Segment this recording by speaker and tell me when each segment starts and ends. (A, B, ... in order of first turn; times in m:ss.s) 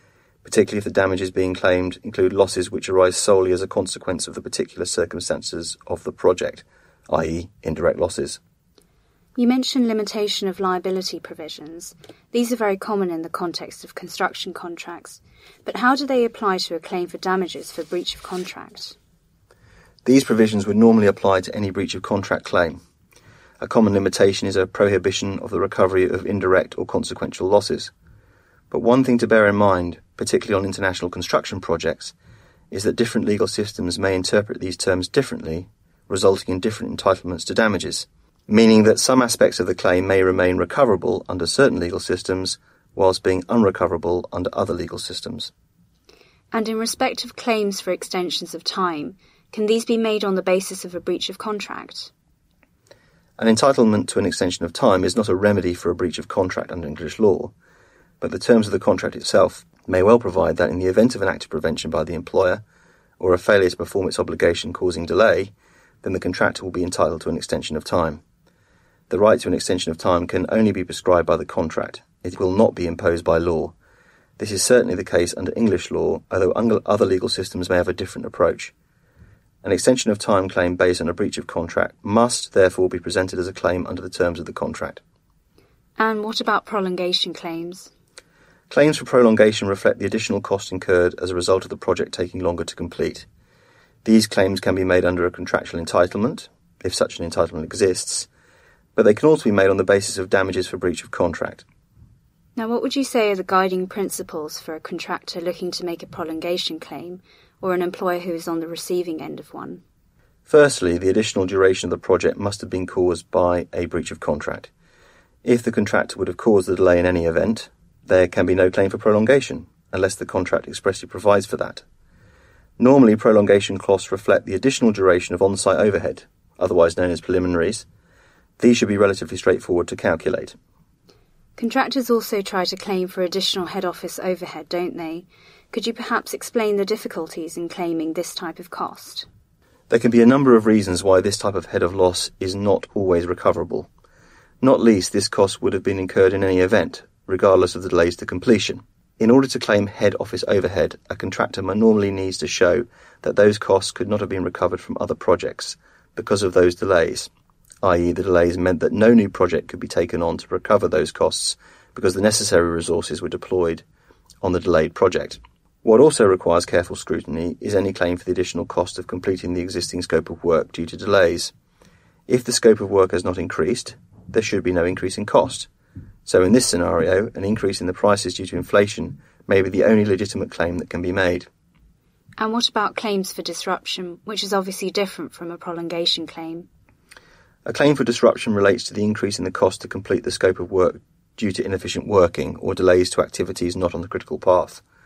0:00.4-0:08.4 A
0:09.4-0:18.9 B
0:20.0-0:22.8 A
0:23.6-0:27.9 A
0:28.7-0:32.1 A
0:32.7-0:45.5 A
0:46.5-0:52.1 B
0:53.4-0:57.5 A
0:58.2-1:02.6 A
1:03.2-1:08.2 A
1:09.1-1:13.7 A
1:14.4-1:18.7 A
1:19.6-1:25.0 A
1:26.0-1:27.9 B
1:28.7-1:33.2 A
1:34.0-1:38.3 A
1:39.0-1:41.6 A
1:42.6-1:49.8 B
1:50.5-1:54.7 A
1:55.4-2:01.8 A
2:02.8-2:07.8 A
2:08.6-2:10.6 A
2:11.6-2:19.2 B
2:19.9-2:23.9 A
2:24.6-2:37.3 A
2:37.8-2:43.8 A
2:44.4-2:51.5 A
2:52.3-2:55.7 A
2:56.2-3:01.5 A
3:02.4-3:06.7 B
3:07.6-3:14.8 A